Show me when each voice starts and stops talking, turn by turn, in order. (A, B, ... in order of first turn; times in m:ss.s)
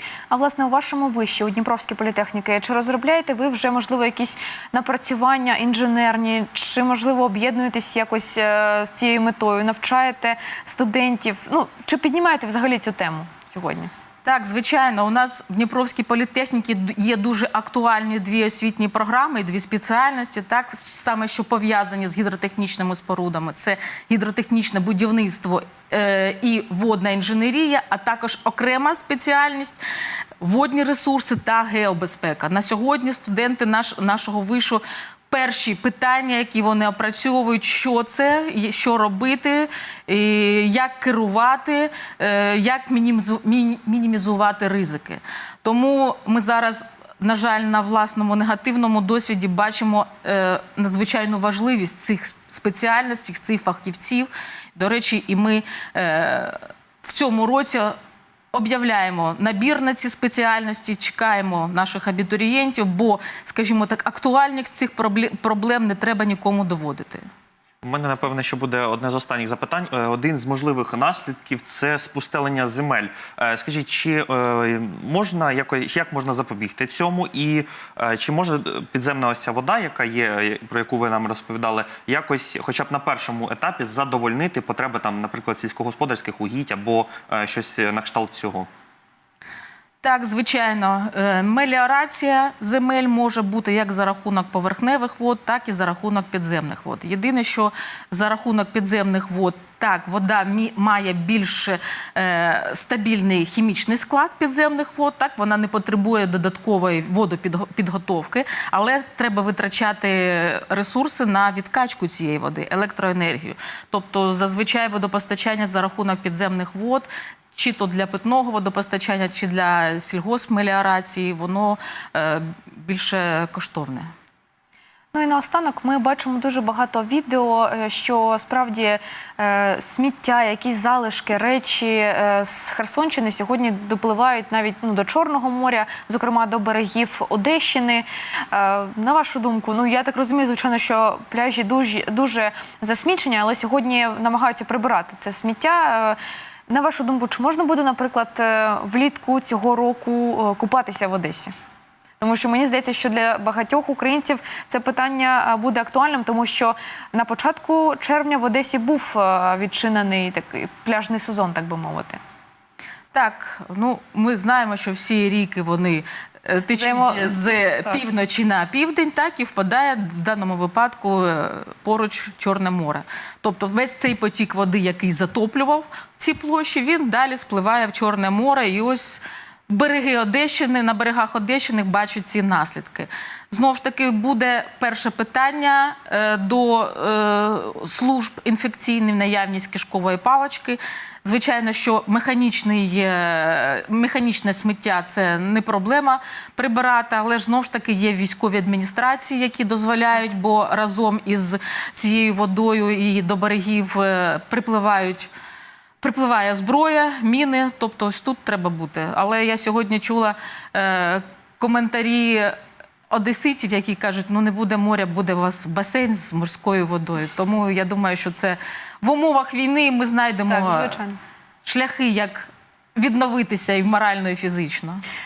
0:00.3-0:13.9 A
0:14.2-0:29.8 B
0:30.4-0:58.0 B
0:58.5-1:07.2 B
1:07.8-1:28.7 C
1:30.0-2:04.1 B
2:05.1-2:26.2 A
2:26.7-2:31.5 A
2:32.2-2:42.2 A
2:43.1-3:25.3 B
2:46.7-2:48.0 A
3:26.0-3:32.6 B
3:33.1-3:41.0 B
3:40.5-3:41.2 A
3:41.6-3:45.0 B